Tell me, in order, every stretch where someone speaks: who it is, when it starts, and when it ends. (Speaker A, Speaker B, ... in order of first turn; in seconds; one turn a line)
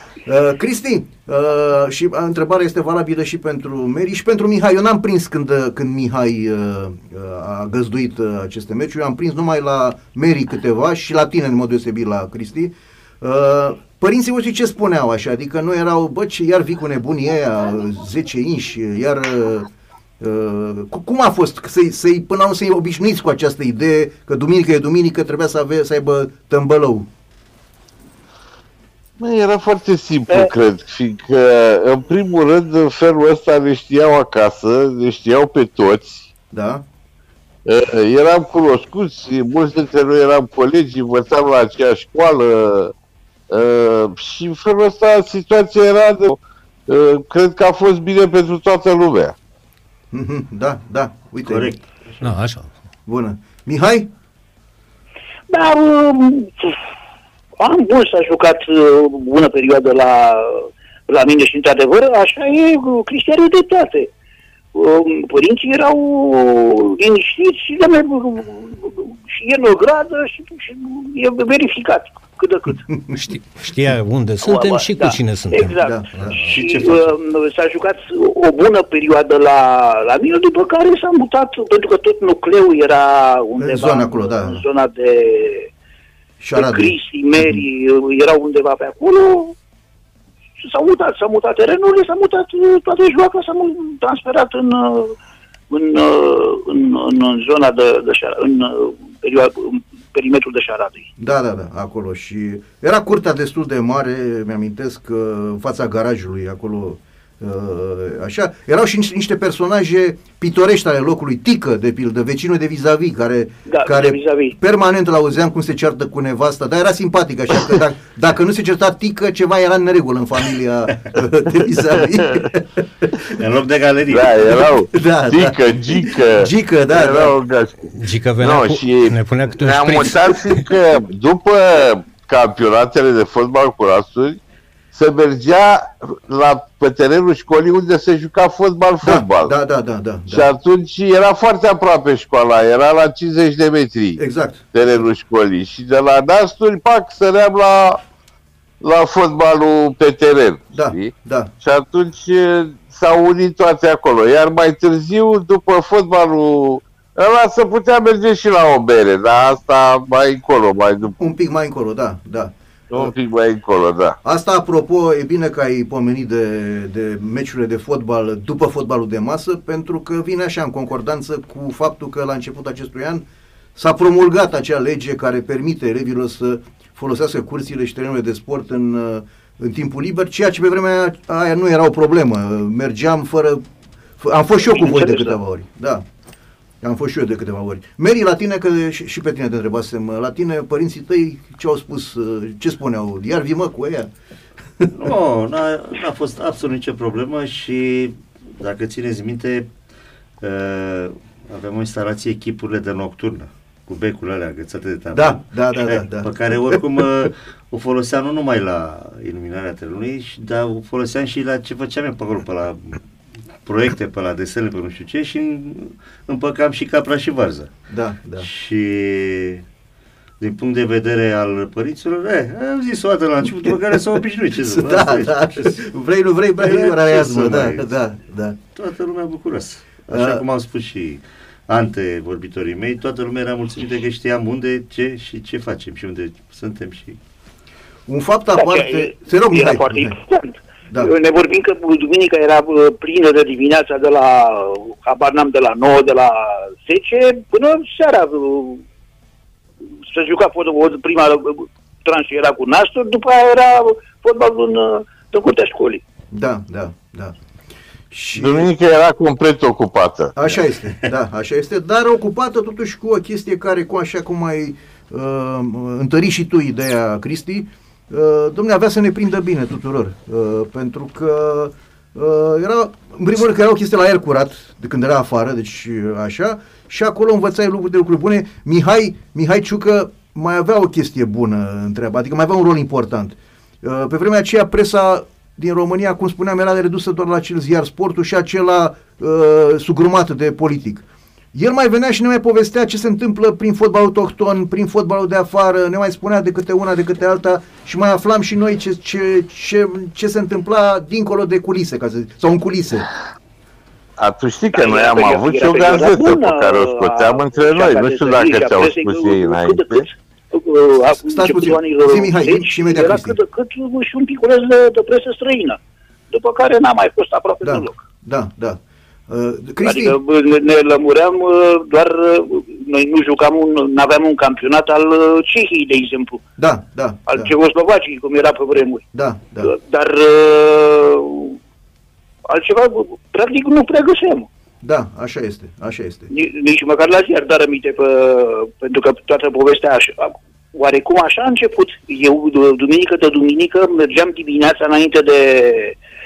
Speaker A: 0.3-19.7
Speaker A: 20.2-27.1
Speaker B: 29.2-36.3
Speaker A: 36.5-36.8
Speaker B: 37.7-42.9
Speaker B: 43.5-49.4
Speaker A: 50.1-51.7
Speaker C: 51.5-52.4
Speaker D: 52.2-52.7
Speaker A: 53.1-54.1
Speaker E: 55.5-56.8
Speaker E: 57.6-64.1
Speaker E: 64.7-72.9
Speaker A: 72.9-73.2
Speaker D: 73.2-76.5
Speaker E: 74.4-85.7
Speaker A: 75.8-76.4
Speaker C: 76.3-77.1
Speaker A: 83.6-84.6
Speaker A: 86.4-87.6
Speaker E: 86.5-89.5
Speaker E: 90.6-95.2
Speaker E: 95.7-101.1
Speaker A: 101.2-123.2
Speaker E: 113.7-114.6
Speaker C: 123.4-124.6
Speaker B: 124.1-134.4
Speaker A: 124.9-127.3
Speaker D: 128.0-130.4
Speaker B: 134.9-139.5
Speaker A: 139.0-140.5
Speaker B: 140.3-144.2
Speaker A: 144.2-144.7
Speaker B: 144.7-148.0
Speaker B: 148.8-161.2
Speaker A: 150.7-151.5
Speaker A: 161.2-163.1
Speaker B: 162.9-164.2
Speaker A: 164.2-173.2
Speaker A: 173.8-183.6
Speaker A: 184.2-186.1
Speaker E: 184.7-185.4
Speaker A: 186.8-194.1
Speaker C: 194.9-199.7
Speaker C: 200.4-213.0
Speaker A: 205.1-207.0
Speaker C: 213.6-217.7
Speaker A: 217.9-218.5
Speaker C: 218.4-219.7
Speaker C: 220.4-225.8
Speaker A: 224.6-228.6
Speaker C: 226.6-227.9
Speaker C: 228.8-237.2
Speaker A: 230.1-230.4
Speaker A: 238.1-240.2
Speaker E: 238.6-248.8
Speaker E: 250.1-256.0
Speaker A: 256.3-257.4
Speaker A: 258.1-258.7
Speaker B: 258.4-260.3
Speaker A: 260.4-303.1
Speaker B: 304.2-310.1
Speaker E: 304.7-315.8
Speaker A: 311.3-313.4
Speaker E: 316.3-318.0
Speaker A: 317.6-320.2
Speaker E: 319.8-326.4
Speaker A: 326.6-327.5
Speaker E: 327.3-329.1
Speaker A: 329.1-329.7
Speaker E: 329.6-331.6
Speaker E: 332.5-334.5
Speaker A: 334.8-336.3
Speaker E: 336.3-346.0